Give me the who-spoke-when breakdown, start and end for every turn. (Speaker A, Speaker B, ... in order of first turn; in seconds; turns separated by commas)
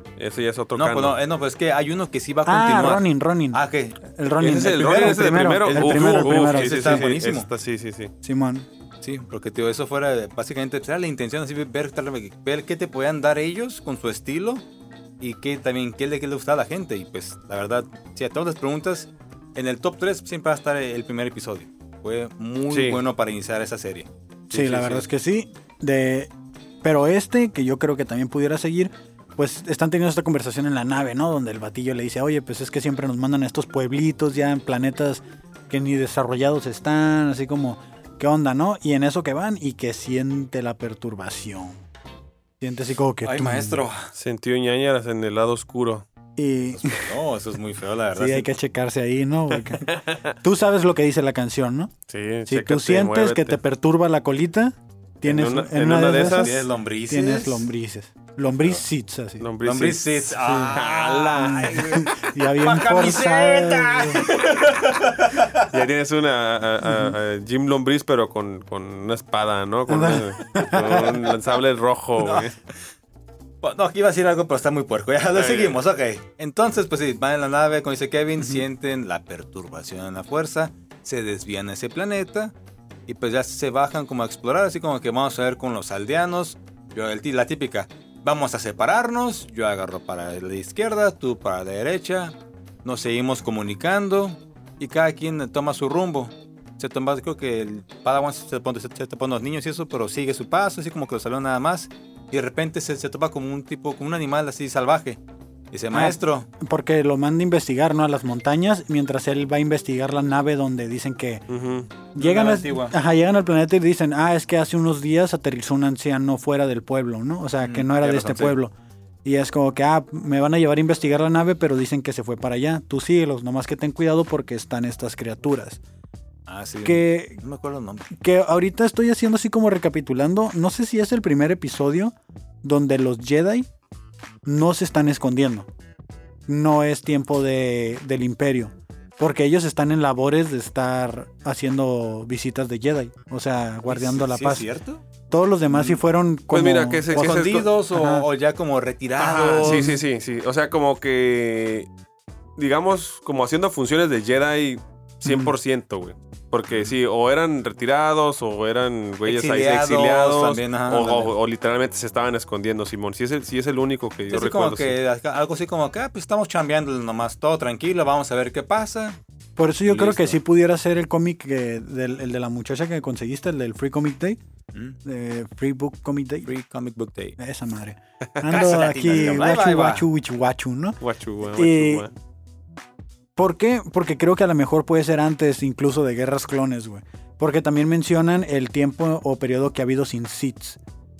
Speaker A: 0.2-1.2, Speaker B: 0.7-4.0, Speaker C: 2.5-7.0, Speaker A: 4.4-8.1, Speaker B: 4.6-7.5, Speaker C: 8.2-8.7, Speaker B: 9.0-14.6, Speaker B: 15.2-25.0, Speaker A: 22.7-23.0, Speaker C: 24.5-26.3, Speaker A: 24.6-24.9, Speaker C: 26.8-41.8, Speaker C: 42.6-43.8, Speaker B: 43.2-44.1, Speaker A: 44.1-46.0, Speaker C: 46.4-47.2, Speaker B: 46.7-48.5, Speaker C: 48.1-51.9, Speaker A: 49.7-50.3, Speaker A: 52.1-53.6, Speaker C: 52.5-59.5, Speaker A: 55.2-56.6, Speaker B: 56.0-57.7, Speaker A: 59.4-61.8, Speaker B: 59.6-65.7, Speaker C: 60.4-60.8, Speaker C: 61.3-64.3, Speaker A: 65.5-72.6, Speaker C: 66.8-67.1, Speaker C: 69.9-71.2, Speaker B: 70.9-71.3, Speaker B: 72.2-72.8, Speaker B: 73.6-82.5, Speaker A: 75.3-75.8, Speaker B: 83.1-105.2, Speaker B: 105.7-106.5, Speaker C: 105.9-111.5, Speaker A: 111.5-111.9, Speaker C: 112.1-125.8, Speaker B: 112.2-112.9, Speaker B: 117.6-118.5, Speaker B: 126.5-128.1, Speaker C: 126.8-127.4, Speaker C: 128.1-133.7, Speaker C: 134.4-135.7, Speaker C: 136.5-144.7, Speaker B: 143.8-145.0, Speaker C: 145.3-147.0, Speaker B: 145.7-146.0, Speaker A: 146.5-147.7, Speaker B: 147.1-149.9, Speaker C: 147.9-148.2, Speaker A: 149.2-151.9, Speaker C: 149.6-150.0, Speaker A: 152.6-165.0, Speaker C: 155.2-155.5, Speaker B: 159.2-161.3, Speaker B: 164.3-169.2, Speaker C: 169.6-174.4, Speaker B: 169.8-170.3, Speaker C: 175.0-176.5, Speaker B: 176.4-177.4, Speaker C: 177.4-182.1, Speaker B: 178.4-180.1, Speaker A: 181.0-182.1, Speaker C: 183.4-190.8